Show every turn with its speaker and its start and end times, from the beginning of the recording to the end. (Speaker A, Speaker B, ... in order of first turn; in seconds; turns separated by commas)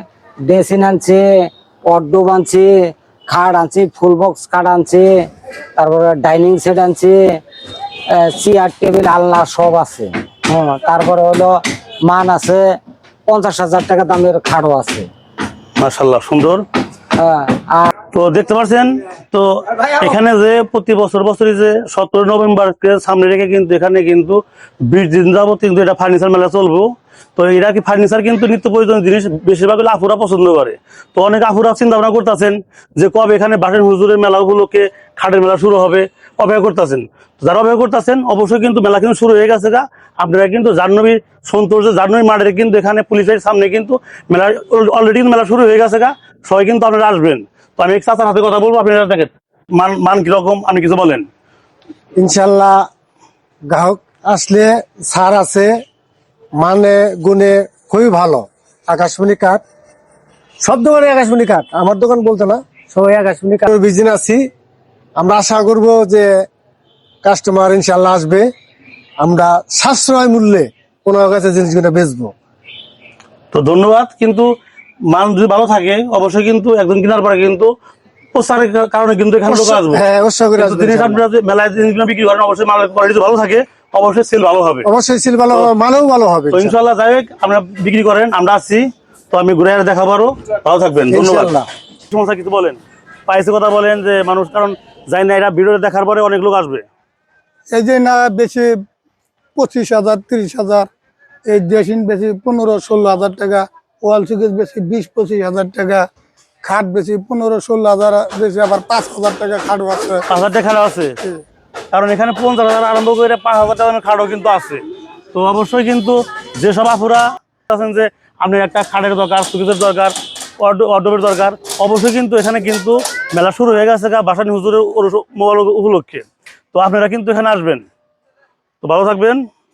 Speaker A: 0.5-1.3, Speaker A: 1.9-5.1, Speaker A: 5.8-7.2, Speaker A: 8.1-12.8, Speaker A: 13.3-15.1, Speaker B: 15.8-16.6, Speaker A: 17.2-18.0, Speaker B: 18.1-51.2, Speaker C: 52.2-52.8, Speaker C: 53.7-55.7, Speaker C: 56.6-59.6, Speaker C: 60.6-64.4, Speaker C: 65.2-66.3, Speaker C: 67.2-68.5, Speaker C: 69.2-72.3, Speaker B: 73.5-74.5, Speaker B: 75.1-77.7, Speaker B: 78.3-80.0, Speaker C: 79.5-81.2, Speaker B: 80.6-84.8, Speaker C: 84.8-86.7, Speaker B: 86.5-91.5, Speaker C: 91.1-91.7, Speaker B: 92.1-96.8, Speaker D: 97.7-98.7, Speaker D: 99.5-100.9, Speaker D: 101.5-106.0, Speaker D: 106.6-110.2, Speaker B: 110.3-111.1, Speaker B: 111.9-114.8, Speaker B: 115.3-127.8, Speaker B: 128.8-129.4